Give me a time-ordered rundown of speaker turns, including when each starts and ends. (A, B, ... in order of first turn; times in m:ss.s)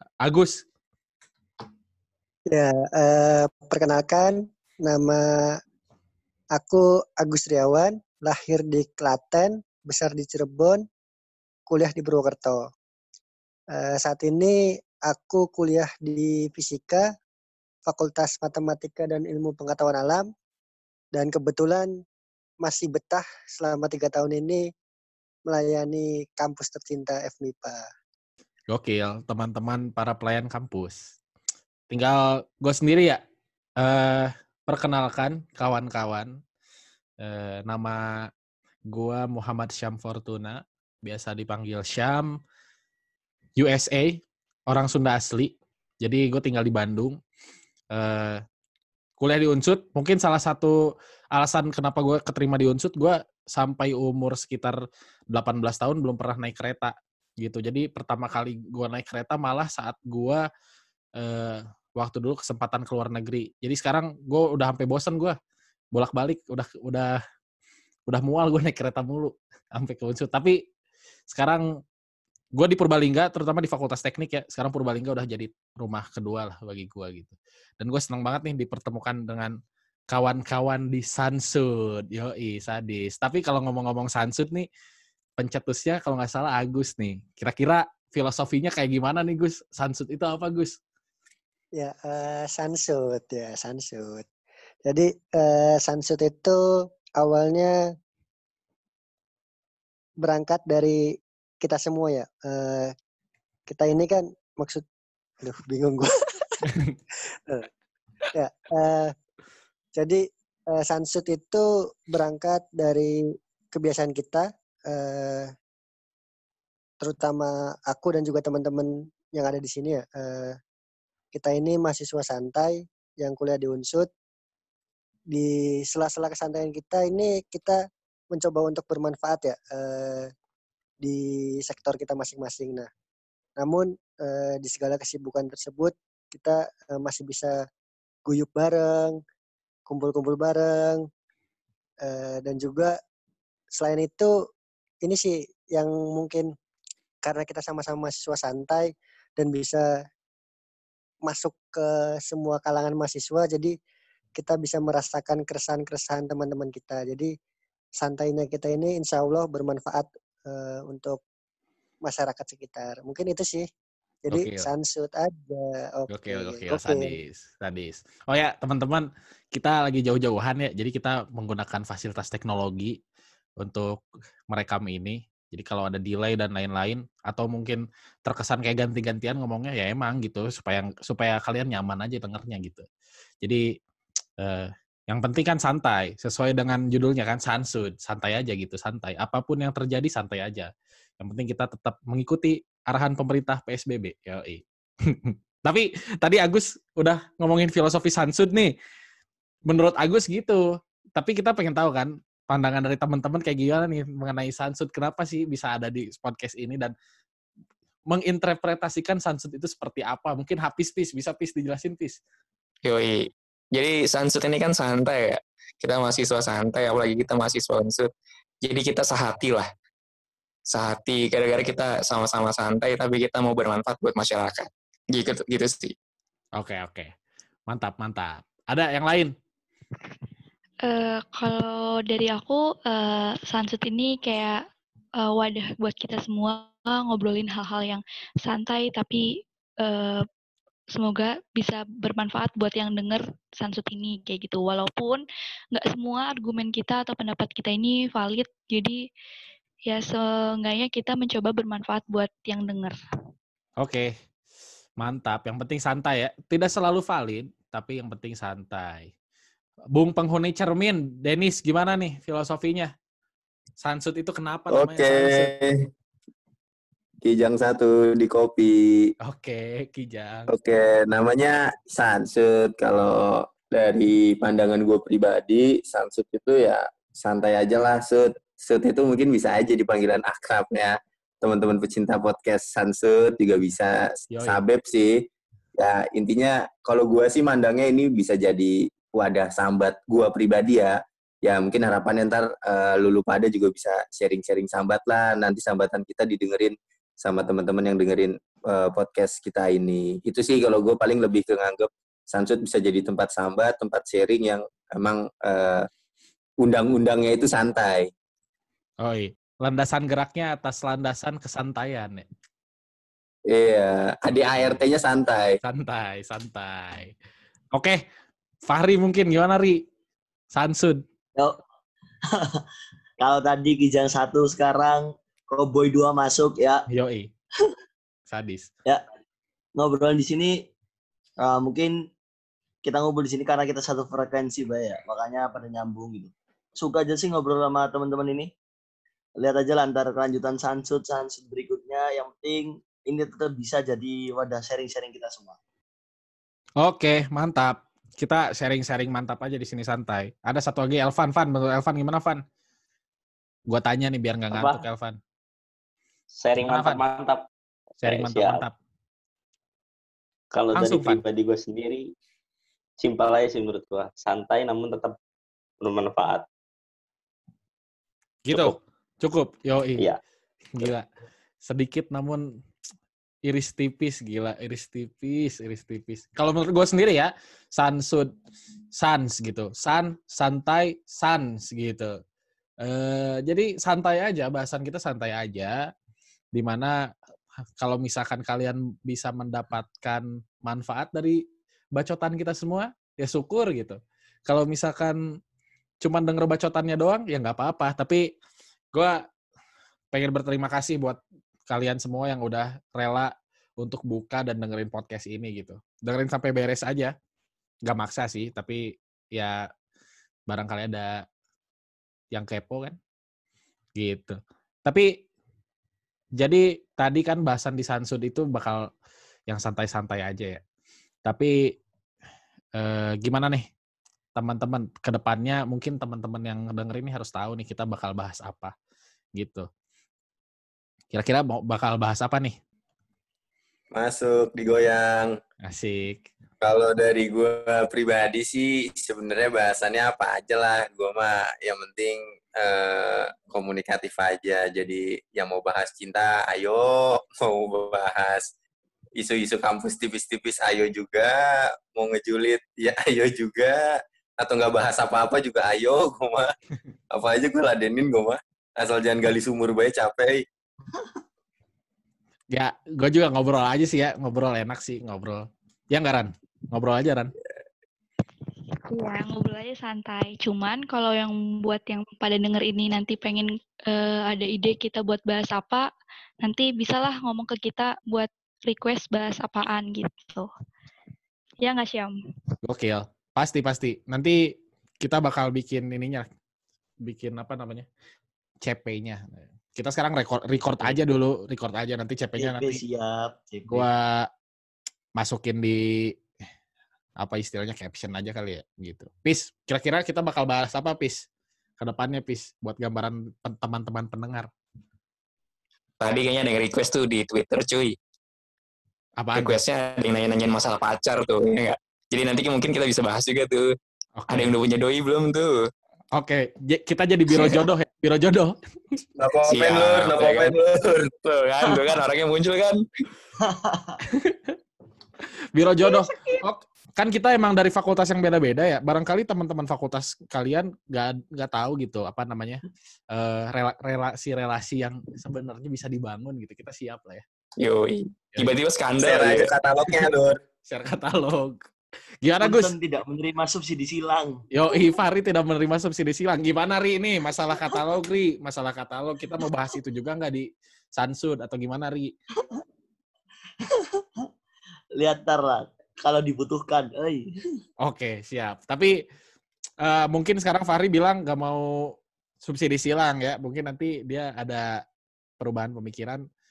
0:00.2-0:00.6 A
0:02.5-0:05.6 B
0:06.5-0:10.8 B
0:11.7-0:12.6 B
0:13.7-0:17.1 B
0:17.9-0:20.3 B
0:21.1-0:21.9 B
0:22.6-0:24.7 B
0:25.5-0:27.8 B
0:28.7-0:31.1 A
0:31.9-0:33.2 A
0:33.8-0:36.4 A
0:37.2-0:38.0 A
0:38.9-0:42.4 A
0:43.6-0:47.2 A
0:47.9-0:48.4 A
0:49.2-0:50.8 A
0:51.3-0:54.8 A
0:55.3-1:00.4 A
1:01.2-1:05.4 A
1:05.9-1:07.2 A
1:08.1-1:10.6 A
1:11.3-1:11.6 A
1:12.5-1:19.5 A
1:20.1-1:24.6 A
1:25.4-1:30.8 A
1:31.8-1:34.3 B
1:34.8-1:36.6 B
1:37.2-1:37.8 B
1:40.2-1:42.9 B
1:43.7-1:44.8 B
1:45.4-1:46.6 B
1:46.7-1:46.9 A
1:48.3-1:49.1 B
1:50.0-1:55.5 B
1:57.0-2:00.6 B
2:01.3-2:04.1 B
2:05.3-2:07.8 B
2:08.3-2:10.3 B
2:11.0-2:12.9 B
2:13.6-2:17.6 B
2:18.2-2:19.2 B
2:19.9-2:21.1 B
2:22.0-2:22.9 B
2:23.8-2:24.3 B
2:25.0-2:26.5 B
2:27.2-2:29.8 B
2:31.2-2:33.8 B
2:34.4-2:37.3 B
2:38.0-2:41.2 B
2:42.0-2:43.7 B
2:44.2-2:47.1 B
2:44.3-2:44.7 A
2:46.1-2:53.0 A
2:53.6-2:54.0 A
2:54.5-3:02.8 A
3:04.4-3:18.7 A
3:19.7-3:20.6 A
3:21.2-3:26.9 A
3:28.1-3:32.2 A
3:32.8-3:38.1 C
3:38.6-3:39.7 C
3:40.7-3:45.9 C
3:46.6-3:47.1 A
3:47.7-3:49.3 A
3:50.8-3:54.6 D
3:55.2-4:00.2 D
4:00.9-4:09.0 D
4:09.9-4:12.9 D
4:13.8-4:14.1 A
4:15.0-4:19.1 A
4:19.9-4:22.9 A
4:23.8-4:25.5 A
4:24.7-4:25.7 E
4:27.2-4:29.1 E
4:29.2-4:30.5 A
4:30.5-5:05.9 E
4:44.3-4:44.6 A
5:06.6-5:08.1 E
5:09.0-5:12.2 A
5:13.5-5:15.6 E
5:15.6-5:17.1 A
5:17.7-5:18.0 A
5:18.7-5:19.8 A
5:20.5-5:21.0 A
5:22.3-5:22.6 F
5:23.2-5:26.9 F
5:26.9-5:27.3 A
5:28.3-5:28.7 A
5:29.8-5:30.6 F
5:31.4-5:32.0 F
5:32.8-5:38.5 F
5:39.4-5:45.6 F
5:46.8-5:52.4 A
5:53.7-5:55.2 A
5:54.5-5:54.8 G
5:56.4-5:57.4 G
5:56.6-5:57.0 A
5:58.0-5:58.6 G
5:58.0-5:58.7 A
6:00.5-6:02.1 G
6:00.8-6:01.2 A
6:03.0-6:05.2 G
6:05.8-6:06.4 G
6:08.4-6:10.0 A
6:08.5-6:08.8 G
6:10.8-6:11.0 A
6:11.6-6:12.4 A
6:13.4-6:18.3 A
6:18.9-6:22.2 A
6:22.8-6:25.8 A
6:26.5-6:27.0 A
6:27.8-6:31.4 A
6:31.9-6:35.2 A
6:36.0-6:38.2 A
6:38.9-6:39.2 A
6:40.1-6:47.1 A
6:47.9-6:48.8 A
6:49.3-6:49.6 A
6:50.5-6:51.2 A
6:52.3-6:53.0 A
6:54.0-6:55.2 A
6:56.4-6:58.9 A
6:59.5-7:00.6 A
7:01.2-7:01.8 A
7:02.8-7:03.6 A
7:04.4-7:08.7 A
7:09.4-7:09.7 A
7:11.1-7:12.6 A
7:13.9-7:15.4 E
7:15.6-7:16.2 A
7:16.6-7:28.5 E
7:29.2-7:36.5 E
7:37.1-7:40.4 E
7:42.5-7:47.3 A
7:48.9-7:55.9 D
7:56.4-8:00.5 D
8:01.6-8:02.1 D
8:02.6-8:06.2 A
8:07.0-8:07.9 A
8:08.6-8:12.8 A
8:12.4-8:13.9 F
8:13.7-8:14.3 A
8:15.2-8:16.1 A
8:17.2-8:21.2 A
8:21.8-8:24.5 A
8:26.0-8:27.9 C
8:29.2-8:29.6 A
8:29.4-8:33.7 C
8:34.2-8:34.5 A
8:34.3-8:35.7 C
8:36.1-8:38.6 A
8:39.2-8:41.1 E
8:39.5-8:40.6 C
8:41.2-8:42.8 C
8:43.4-8:44.0 F
8:44.1-8:44.5 A
8:45.5-8:52.6 A
8:53.1-8:57.2 A
8:57.6-8:59.5 C
8:59.0-9:00.4 E
9:00.7-9:01.6 A
9:02.2-9:02.8 A
9:02.4-9:04.4 F
9:04.5-9:12.1 A
9:13.6-9:14.2 F
9:14.9-9:17.3 F
9:17.8-9:18.9 A
9:19.8-9:24.8 A
9:25.4-9:26.2 A